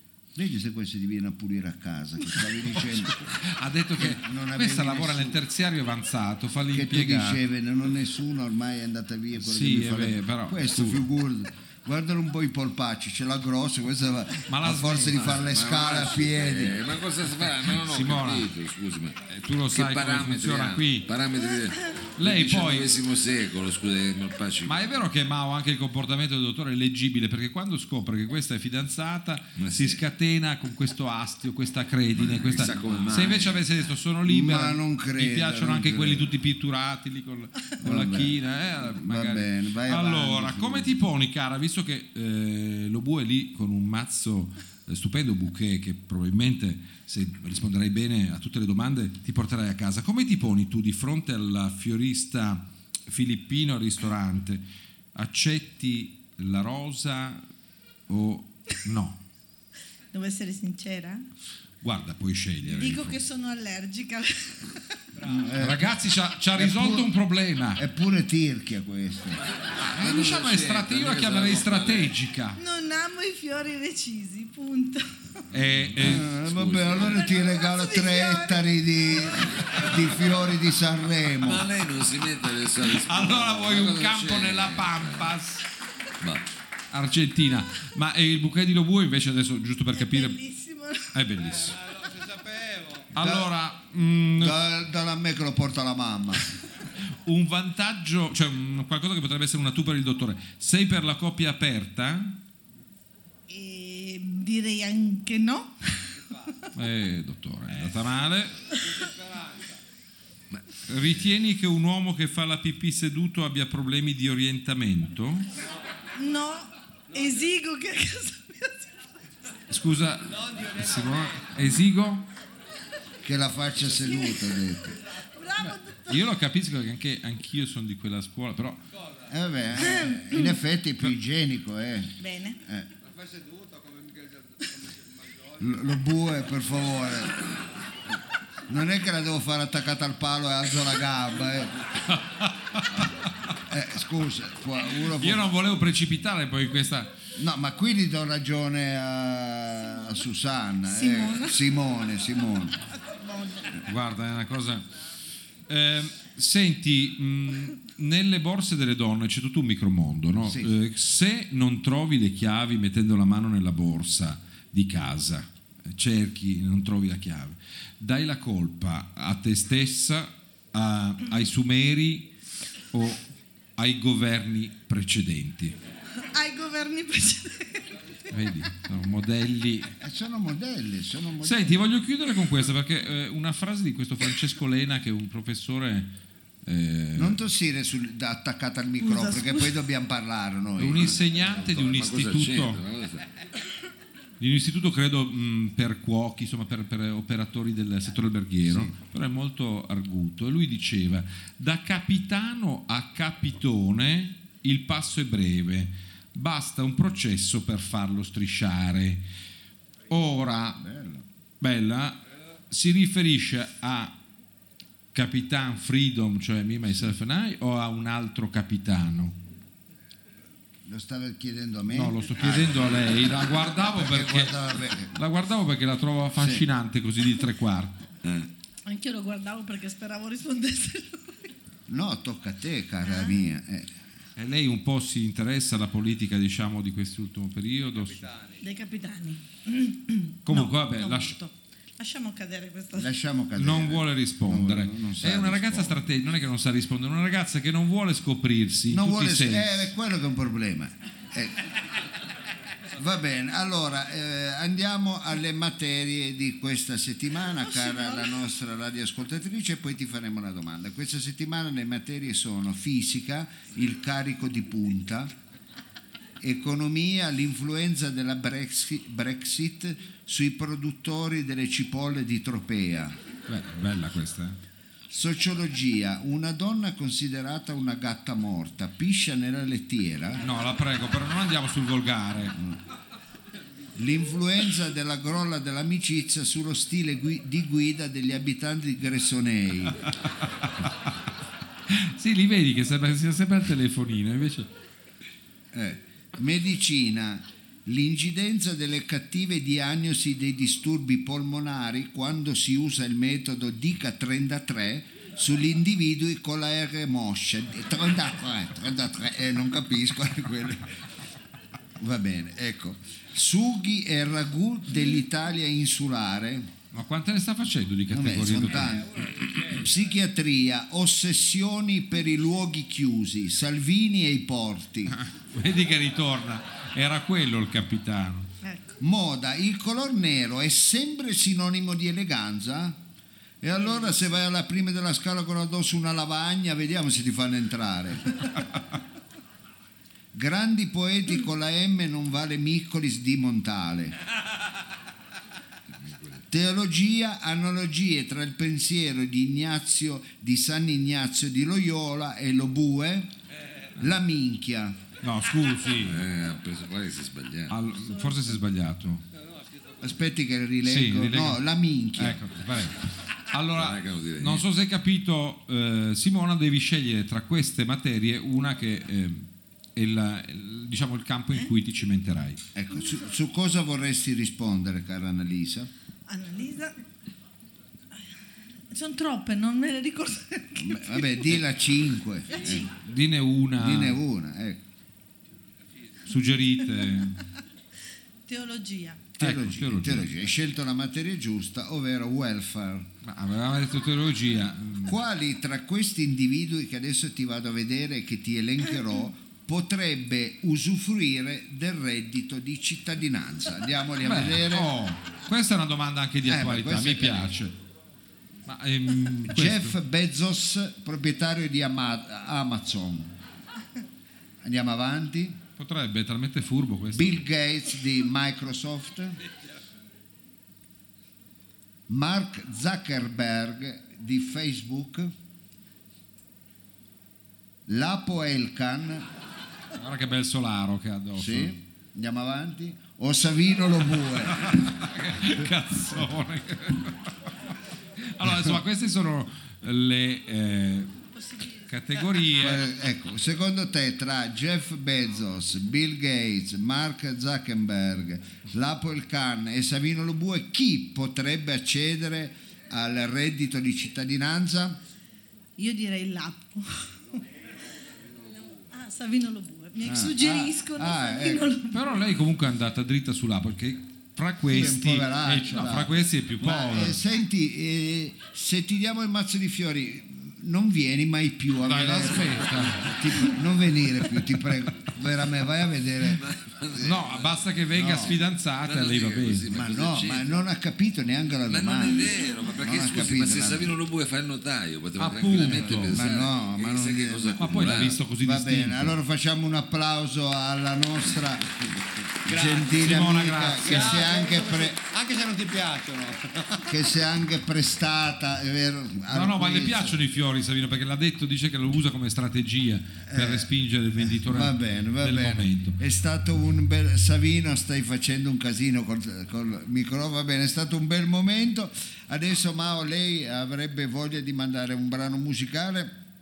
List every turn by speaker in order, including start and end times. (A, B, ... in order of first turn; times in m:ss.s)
0:00.4-0:03.3 A
0:03.4-0:07.4 B
0:04.0-0:05.4 A
0:06.7-0:16.8 A
0:09.4-0:11.0 B
0:14.5-0:15.4 B
0:15.2-0:19.2 C
0:17.7-0:18.5 B
0:19.3-0:21.1 B
0:19.7-0:25.0 C
0:22.2-0:22.9 B
0:24.6-0:54.6 B
0:29.6-0:30.0 C
0:32.2-0:33.6 C
0:34.3-0:36.3 A
0:37.8-0:41.0 A
0:55.2-0:57.4 B
0:58.1-0:59.2 B
1:00.1-1:01.2 D
1:01.8-1:03.2 B
1:02.7-1:04.8 D
1:05.2-1:06.0 A
1:05.6-1:07.8 B
1:06.5-1:07.1 A
1:07.8-1:09.4 A
1:09.9-1:12.6 B
1:10.0-1:12.2 C
1:12.6-1:15.4 D
1:15.5-1:16.3 B
1:16.0-1:21.7 A
1:16.0-1:17.3 C
1:17.0-1:20.1 D
1:21.4-1:25.4 C
1:22.9-1:25.6 B
1:26.2-1:26.4 C
1:26.9-1:30.4 B
1:29.9-1:31.2 D
1:31.1-1:31.8 B
1:31.6-1:33.1 E
1:33.2-1:34.6 B
1:33.2-1:33.5 A
1:34.4-1:36.5 A
1:37.0-1:42.4 B
1:43.5-1:46.1 D
1:46.8-1:48.6 B
1:48.9-1:49.8 E
1:50.9-1:55.5 B
1:56.2-1:59.0 D
1:59.7-2:02.3 B
2:03.2-2:05.0 A
2:04.0-2:04.6 D
2:05.2-2:06.2 D
2:05.6-2:08.8 B
2:09.3-2:12.9 A
2:09.8-2:10.6 D
2:12.2-2:12.6 D
2:13.0-2:15.6 E
2:15.6-2:17.5 A
2:18.7-2:21.8 A
2:22.1-2:23.1 B
2:23.7-2:25.5 A
2:25.0-2:27.1 B
2:27.4-2:32.8 A
2:30.9-2:31.6 D
2:33.2-2:33.7 D
2:33.9-2:34.8 B
2:35.7-2:52.3 B
2:40.4-2:40.7 A
2:52.9-2:53.2 B
2:53.8-2:55.8 B
2:56.2-2:58.0 D
2:58.3-3:00.0 B
3:00.0-3:01.8 A
3:01.4-3:06.1 B
3:06.6-3:07.4 B
3:07.2-3:11.2 A
3:09.0-3:09.8 D
3:10.8-3:12.8 B
3:11.0-3:13.2 C
3:14.4-3:29.2 B
3:18.6-3:18.9 A
3:30.1-3:30.8 B
3:30.8-3:31.2 A
3:31.6-3:32.2 B
3:32.7-3:34.2 B
3:35.1-3:39.4 B
3:40.8-3:45.2 A
3:41.9-3:44.6 B
3:45.1-3:48.1 B
3:46.4-3:46.7 A
3:48.9-3:51.4 D
3:51.9-3:53.9 A
3:53.0-3:53.4 D
3:54.4-3:58.2 B
3:58.0-3:58.6 E
3:58.6-4:03.1 D
4:00.4-4:01.4 B
4:03.0-4:06.0 A
4:03.6-4:09.9 B
4:08.9-4:11.6 A
4:13.0-4:25.3 A
4:17.7-4:18.3 D
4:26.4-4:33.2 A
4:33.5-4:34.6 B
4:35.1-4:40.5 A
4:40.4-4:42.6 B
4:44.0-4:50.0 A
4:51.9-4:54.7 B
4:55.7-5:10.9 A
5:12.0-5:16.7 A
5:16.9-5:19.0 B
5:18.1-5:25.2 A
5:25.1-5:28.5 B
5:28.6-5:28.9 D
5:29.0-5:33.0 A
5:33.6-5:38.5 A
5:40.3-5:44.2 A
5:46.0-5:46.4 C
5:46.5-5:53.3 A
5:54.0-5:55.0 A
5:55.2-5:56.2 B
5:56.0-5:57.8 C
5:57.7-5:59.2 B
5:58.0-5:58.6 D
6:00.0-6:02.4 A
6:00.8-6:01.6 B
6:02.2-6:12.6 B
6:03.7-6:04.6 C
6:12.8-6:15.9 A
6:16.3-6:17.0 D
6:18.9-6:21.5 D
6:20.8-6:22.9 A
6:22.5-6:22.9 D
6:22.9-6:24.2 B
6:23.8-6:24.8 A
6:26.3-6:27.4 B
6:28.5-6:29.3 D
6:29.4-6:33.1 A
6:29.4-6:30.3 B
6:33.2-6:35.2 B
6:35.1-6:44.9 A
6:44.2-6:47.8 B
6:46.4-6:47.5 A
6:48.7-6:50.0 B
6:49.5-6:53.3 A
6:54.6-6:55.6 A
6:55.8-6:57.4 B
6:57.1-6:59.4 A
7:02.1-7:05.3 A
7:07.9-7:09.3 A
7:10.0-7:11.8 B
7:11.4-7:14.9 A
7:14.6-7:17.3 B
7:18.2-7:21.1 B
7:21.4-7:22.4 D
7:21.9-7:22.9 B
7:22.6-7:35.0 A
7:35.8-7:37.4 D
7:38.8-7:42.1 D
7:40.0-7:41.7 A
7:41.9-7:47.2 B
7:44.7-7:56.5 A
7:51.8-7:53.2 B
7:56.4-7:57.6 C
7:57.0-7:59.7 B
7:58.0-7:58.4 A
7:58.8-8:00.5 C
7:59.7-8:04.0 A
8:01.7-8:08.2 C
8:05.2-8:06.2 B
8:06.1-8:15.0 A
8:07.6-8:09.1 B
8:12.5-8:13.3 E
8:13.0-8:14.3 B
8:13.8-8:16.9 E
8:16.9-8:20.2 A
8:19.3-8:26.0 B
8:23.3-8:36.2 A